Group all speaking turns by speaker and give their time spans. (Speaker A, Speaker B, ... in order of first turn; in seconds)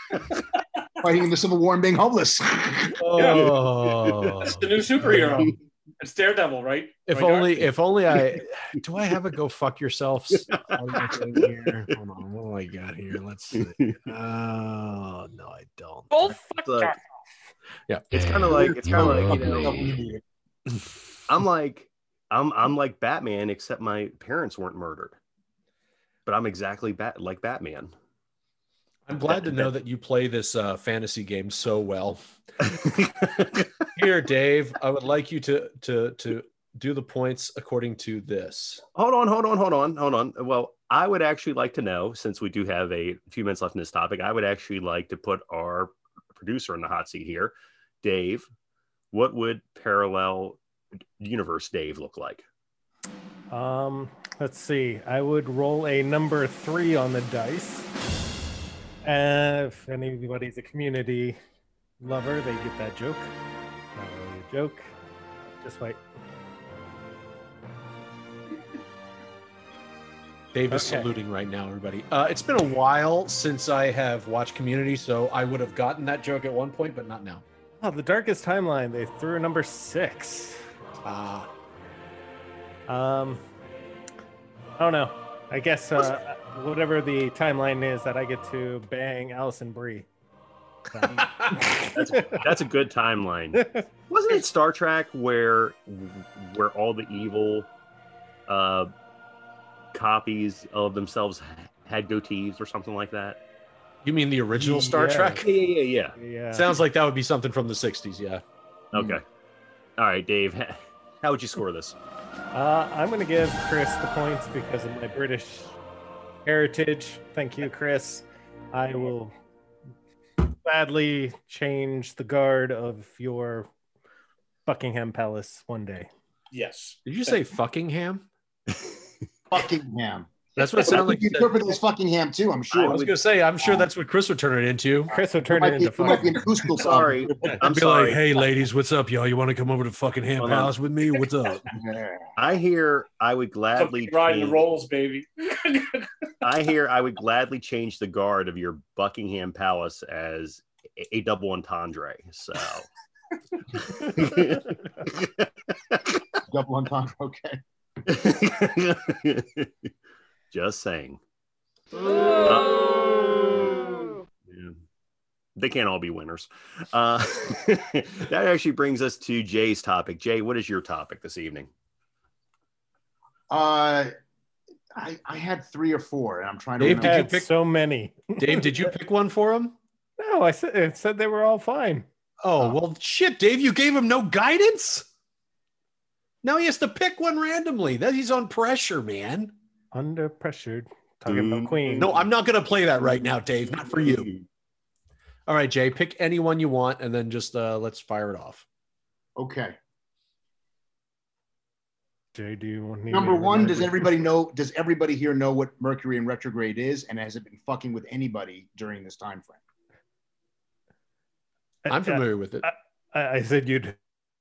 Speaker A: 1.0-3.0, 18.5-20.2, 129.5-133.1, 133.6-133.9, 135.2-137.6, 141.7-142.3, 156.5-157.6, 173.5-174.1, 175.0-177.2, 199.4-199.8, 203.1-209.6
Speaker B: 3.0-5.5, 7.1-16.4, 17.9-18.4, 29.1-32.7, 34.0-38.8, 70.5-77.4, 81.0-81.5, 91.1-91.6, 104.0-105.5, 106.5-108.4, 127.1-128.3, 130.6-131.8, 132.8-135.1, 137.6-141.7, 176.8-177.5, 178.4-179.8, 182.4-185.1, 186.4-189.5, 191.9-194.3, 195.5-198.7, 211.9-212.7
Speaker C: 3.1-3.6, 4.3-7.6, 126.5-127.4, 143.8-146.1
Speaker D: 10.6-11.5, 13.6-13.9, 16.6-17.0, 18.1-20.0, 21.3-25.2, 26.3-27.9, 29.3-29.7, 32.6-33.7, 39.0-48.5, 49.1-50.6, 51.2-52.5, 91.9-97.7, 98.5-98.9, 99.9-103.4, 105.4-106.2, 108.9-109.2, 110.0-112.0, 132.7-133.1, 136.8-138.2, 140.4-140.7, 142.4-144.7, 146.4-152.9, 153.8-156.1, 158.1-159.7, 160.5-161.2, 162.4-164.8, 165.6-171.7, 191.3-191.9, 193.9-194.4
Speaker E: 53.5-57.9, 59.0-61.4, 62.0-63.3, 64.0-64.9, 65.6-66.0, 70.7-71.1, 77.8-80.6, 82.9-83.4, 84.8-90.1, 90.9-92.4, 93.5-93.8, 104.5-105.4, 106.2-106.7, 112.5-115.8, 116.5-119.3, 120.6-123.7, 124.7-126.1, 135.1-136.4, 176.9-178.7, 180.2-182.1, 189.9-192.1, 202.3-204.1, 211.9-214.0